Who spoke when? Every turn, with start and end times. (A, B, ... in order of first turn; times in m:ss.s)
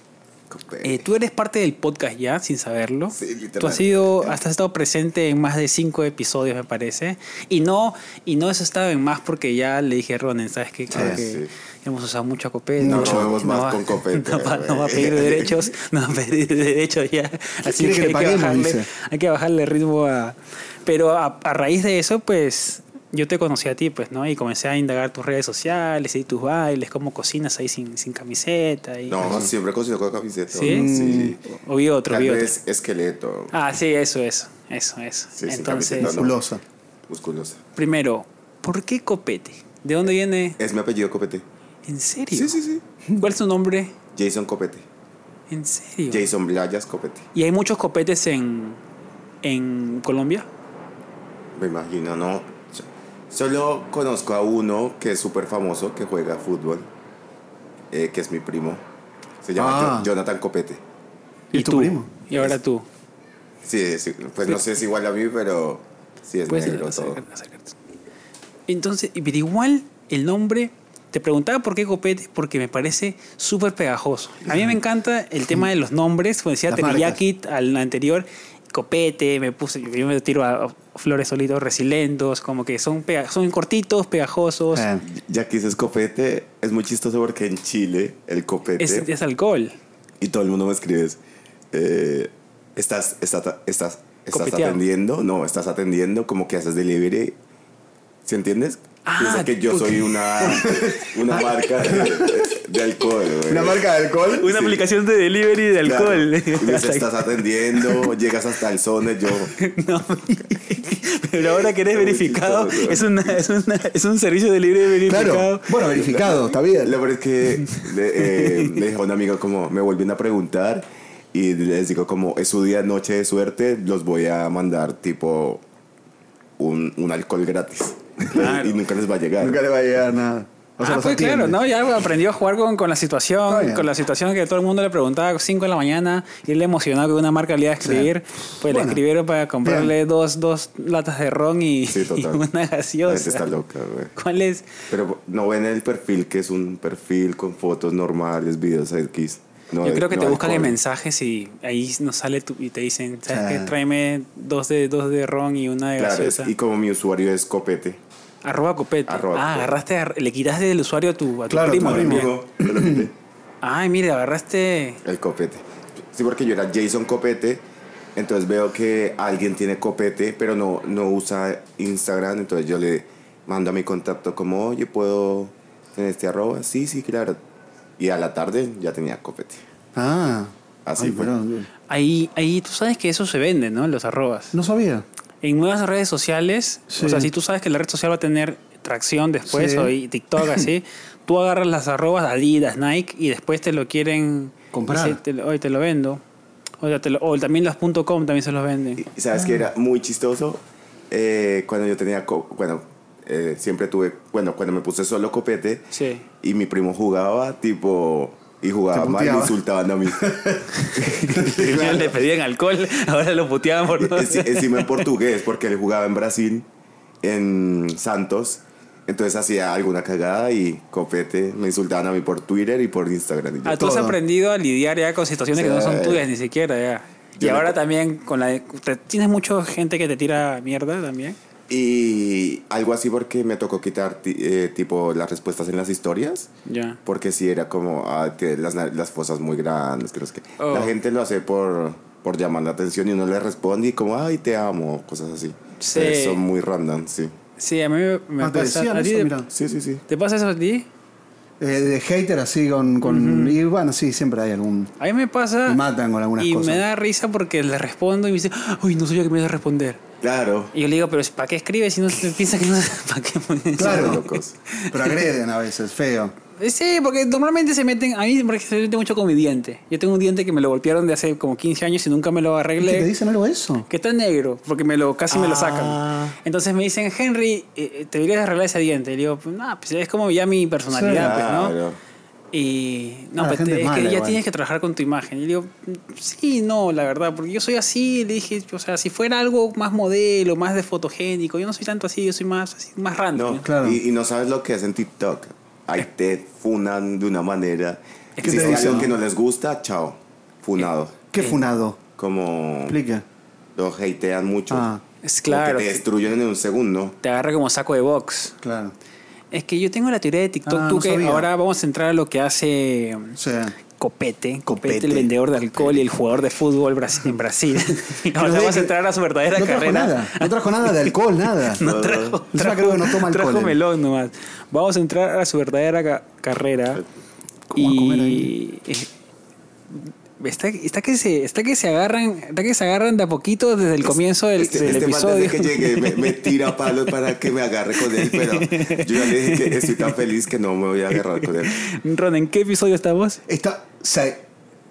0:00.5-0:01.1 A
0:00.8-0:29.4 B
0:03.1-0:04.4 A
0:10.9-0:11.5 A
0:10.9-0:11.2 C
0:12.8-0:13.4 C
0:12.8-0:15.6 A
0:17.6-0:18.9 C
0:29.1-0:31.4 A
0:29.2-0:29.5 C
0:30.5-0:30.9 B
0:30.6-0:31.4 C
0:31.5-0:32.5 B
0:32.1-0:33.5 A
0:33.5-0:36.2 B
0:35.4-0:36.4 A
0:36.0-0:36.6 C
0:37.1-0:37.6 A
0:37.7-0:40.6 B
0:40.6-0:41.4 A
0:41.8-0:42.6 B
0:42.3-0:42.8 A
0:43.1-0:43.9 B
0:44.1-0:44.8 A
0:45.5-0:46.3 B
0:46.1-0:47.3 A
0:47.3-0:48.8 B
0:49.4-0:50.5 B
0:51.6-0:56.9 A
0:57.9-0:58.8 A
0:59.4-1:00.8 A
0:59.6-1:00.1 C
1:01.5-1:02.1 C
1:01.5-1:02.8 B
1:03.6-1:07.2 A
1:06.5-1:07.8 B
1:08.7-1:24.9 B
1:16.7-1:17.2 C
1:24.7-1:25.0 C
1:25.0-1:29.1 A
1:28.8-1:29.8 B
1:30.2-1:31.2 A
1:31.7-1:37.4 A
1:34.3-1:34.8 B
1:38.2-1:44.8 A
1:39.0-1:40.8 B
1:40.6-1:42.5 C
1:43.4-1:44.5 C
1:44.3-1:48.1 B
1:45.8-1:49.5 A
1:49.5-1:55.7 B
1:51.4-1:53.4 A
1:55.0-1:57.0 C
1:55.9-2:05.6 A
1:57.6-1:58.8 B
2:06.6-2:09.6 A
2:08.3-2:08.8 B
2:09.4-2:11.6 C
2:10.8-2:23.5 B
2:13.5-2:13.9 C
2:17.8-2:18.1 C
2:18.6-2:19.0 C
2:19.6-2:19.9 C
2:21.9-2:22.4 A
2:23.0-2:24.1 A
2:24.2-2:24.7 B
2:24.9-2:30.8 A
2:29.8-2:36.5 B
2:33.3-2:33.7 C
2:36.0-2:38.0 A
2:38.4-2:42.3 B
2:39.1-2:39.8 A
2:41.5-2:43.1 C
2:41.8-2:43.1 A
2:43.6-2:45.0 B
2:45.0-2:47.6 A
2:48.2-2:57.4 A
2:58.0-2:59.6 A
2:59.9-3:01.7 C
3:00.8-3:01.3 A
3:01.9-3:04.5 B
3:04.5-3:05.0 C
3:05.4-3:16.2 B
3:06.9-3:07.3 C
3:09.5-3:10.7 C
3:14.7-3:15.2 C
3:16.8-3:19.0 B
3:19.0-3:20.6 A
3:21.1-3:32.1 A
3:25.9-3:26.2 B
3:28.9-3:30.7 C
3:30.8-3:35.0 B
3:31.2-3:31.7 C
3:33.9-3:36.6 A
3:37.2-3:43.9 A
3:43.6-3:51.4 B
3:43.8-3:44.2 C
3:45.5-3:46.2 A
3:47.4-3:47.8 A
3:51.7-3:56.5 A
3:56.6-3:57.0 B
3:57.0-4:07.3 A
4:00.6-4:00.9 B
4:05.8-4:06.4 B
4:07.6-4:09.4 B
4:08.4-4:09.5 C
4:09.5-4:10.0 A
4:10.1-4:10.9 B
4:11.6-4:14.9 C
4:13.0-4:13.6 B
4:15.0-4:15.8 B
4:15.6-4:16.8 C
4:16.4-4:20.0 B
4:20.2-4:20.7 A
4:20.7-4:25.2 B
4:23.8-4:24.6 A
4:23.8-4:24.2 C
4:24.9-4:26.3 C
4:26.6-4:33.1 B
4:32.8-4:33.9 C
4:33.9-4:41.8 B
4:35.3-4:36.4 A
4:40.9-4:41.4 C
4:41.1-4:42.0 A
4:42.5-4:53.7 B
4:43.4-4:44.4 C
4:53.3-5:01.3 A
4:53.6-4:54.0 C
4:58.4-4:59.1 B
4:58.4-4:59.1 C
5:01.3-5:02.0 C
5:02.2-5:03.0 A
5:02.9-5:03.2 C
5:03.8-5:04.9 A
5:04.7-5:05.0 C
5:05.2-5:06.0 B
5:05.5-5:07.2 A
5:07.2-5:08.6 B
5:08.6-5:09.0 C
5:09.5-5:13.4 B
5:10.7-5:11.5 C
5:13.4-5:13.8 C
5:13.9-5:27.0 B
5:14.6-5:15.3 C
5:18.3-5:18.9 C
5:19.5-5:21.8 C
5:21.8-5:22.4 A
5:22.5-5:23.8 C
5:27.7-5:28.5 C
5:27.7-5:29.1 B
5:29.9-5:36.6 B
5:34.1-5:41.8 A
5:38.0-5:40.1 B
5:41.1-5:43.4 B
5:43.5-5:44.4 C